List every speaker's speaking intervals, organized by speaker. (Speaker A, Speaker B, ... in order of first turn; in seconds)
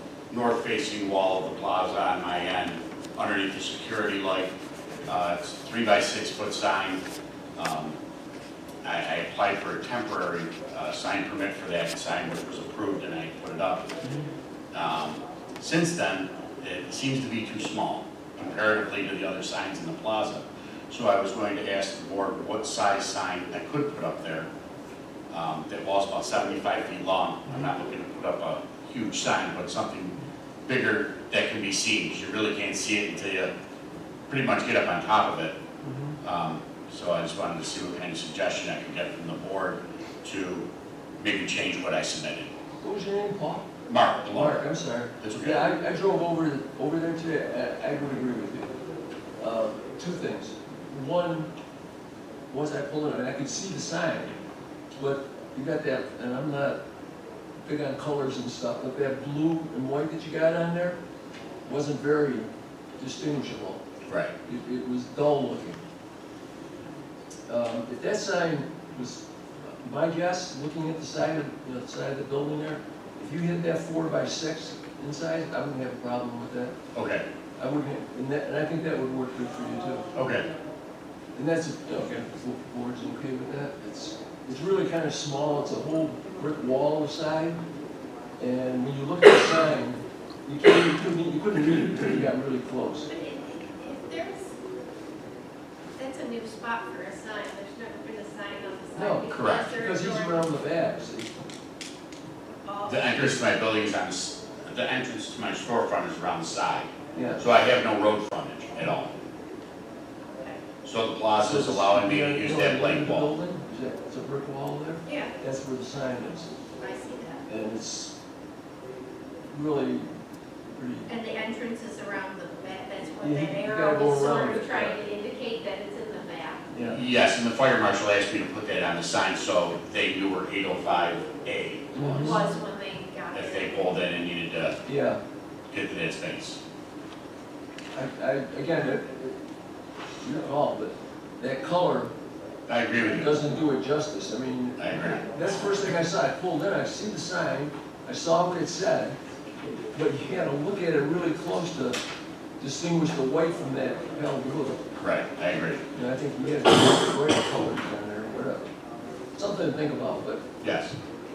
Speaker A: 0.3-4.5, 5.0-7.0, 7.5-8.0, 8.8-13.9, 14.7-24.5, 25.3-30.1, 30.7-33.5, 34.3-35.6, 36.2-40.7, 41.2-42.5, 43.9-44.6, 45.2-45.7, 64.1-64.3, 76.9-77.2, 80.2-80.5, 99.3-99.7, 102.9-109.1, 110.8-113.3, 126.9-132.3, 133.3-134.8, 135.7-136.6, 142.7-143.4, 144.8-145.3, 155.0-155.8, 160.6-160.9
Speaker B: 35.8-36.2, 42.8-43.7, 44.3-48.7, 49.4-51.5, 52.5-54.4, 54.9-56.8, 57.6-61.0, 61.6-63.8, 64.4-65.8, 67.5-69.2, 69.8-76.8, 77.6-80.1, 81.4-87.6, 88.4-93.1, 98.9-101.3, 107.1-107.5, 111.4-116.6, 117.5-118.1, 119.5-120.1, 120.7-121.1, 123.2-125.0, 126.7-127.0, 131.9-132.5, 134.8-135.2, 137.9-139.4, 140.2-142.1, 143.1-149.2, 149.9-152.0, 152.6-154.8, 155.9-158.7, 159.3-160.4
Speaker C: 93.1-94.5, 96.0-100.5, 102.7-103.2, 110.3-110.6, 115.0-115.3, 116.8-117.4, 121.1-126.7, 132.1-133.8